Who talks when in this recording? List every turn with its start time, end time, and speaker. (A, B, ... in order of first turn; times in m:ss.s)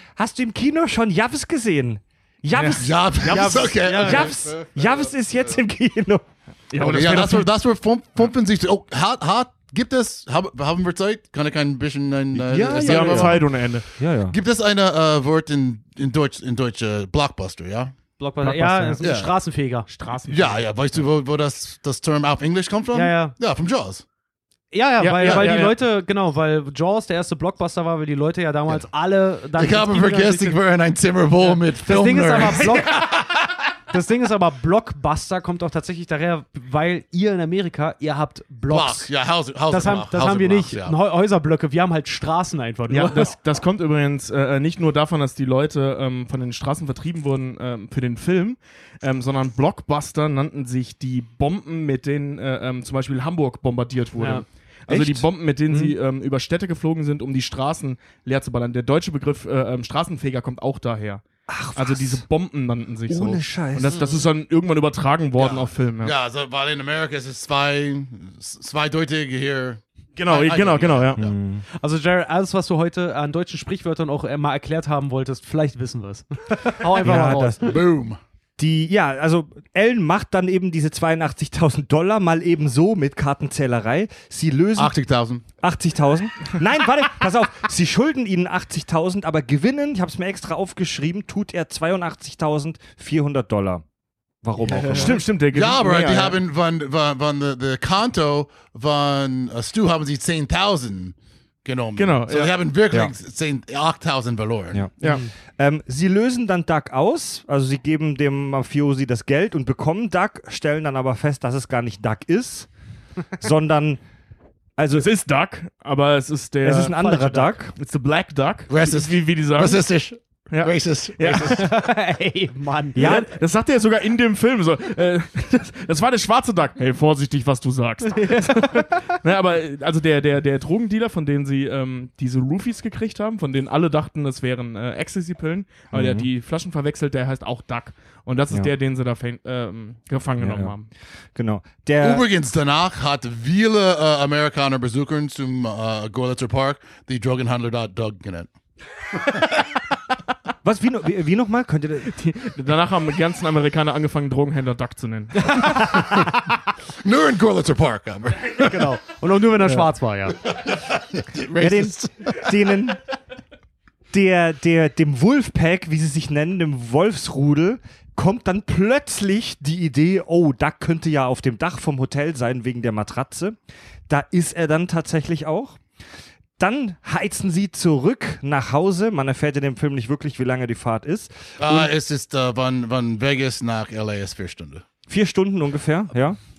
0:00.2-0:06.2 A
0:02.5-0:02.8 B
0:02.8-0:05.6 C
0:03.2-0:04.3 D
0:06.7-0:07.5 B
0:06.8-0:13.5 C
0:12.4-0:13.4 A
0:12.5-0:13.8 B
0:14.0-0:14.4 A
0:14.2-0:17.9 C
0:18.2-0:19.9 D
0:18.4-0:19.0 B
0:19.0-0:19.3 C
0:19.9-0:21.0 B
0:20.3-0:24.0 C
0:22.9-0:23.4 D
0:24.7-0:30.6 D
0:25.0-0:25.7 B
0:25.2-0:25.5 C
0:29.5-0:33.5 C
0:31.7-0:33.2 D
0:33.9-0:39.1 D
0:38.7-0:41.0 C
0:39.7-0:43.3 D
0:42.9-1:01.2 B
0:54.2-0:54.4 D
0:54.9-0:55.8 A
1:01.5-1:02.2 A
1:01.7-1:06.1 B
1:03.1-1:04.0 A
1:03.9-1:04.2 C
1:05.4-1:11.3 C
1:10.2-1:11.2 B
1:11.2-1:11.6 A
1:11.8-1:17.7 D
1:17.0-1:17.7 A
1:17.6-1:18.2 C
1:18.6-1:24.9 A
1:24.8-1:25.4 C
1:25.6-1:33.8 A
1:34.4-1:35.2 A
1:34.7-1:36.4 B
1:34.9-1:44.8 C
1:42.0-1:42.5 B
1:45.0-1:45.3 D
1:45.6-1:52.7 A
1:53.4-1:54.0 A
1:54.8-1:55.1 A
1:55.0-1:57.0 B
1:56.6-1:57.7 A
1:56.9-1:57.5 D
1:57.7-1:59.8 B
1:58.7-2:01.7 C
2:00.5-2:01.6 B
2:01.4-2:03.3 D
2:03.0-2:03.3 A
2:03.0-2:20.9 B
2:08.1-2:08.9 D
2:15.9-2:16.3 A
2:20.4-2:20.7 A
2:21.3-2:22.2 A
2:22.0-2:28.5 C
2:30.6-2:32.1 A
2:32.1-2:36.2 B
2:37.0-2:38.9 C
2:38.6-2:40.4 D
2:40.5-2:42.3 C
2:41.6-2:43.0 A
2:44.1-2:53.6 A
2:54.1-2:55.8 A
2:56.6-3:01.9 A
3:01.6-3:04.8 C
3:05.1-3:06.4 A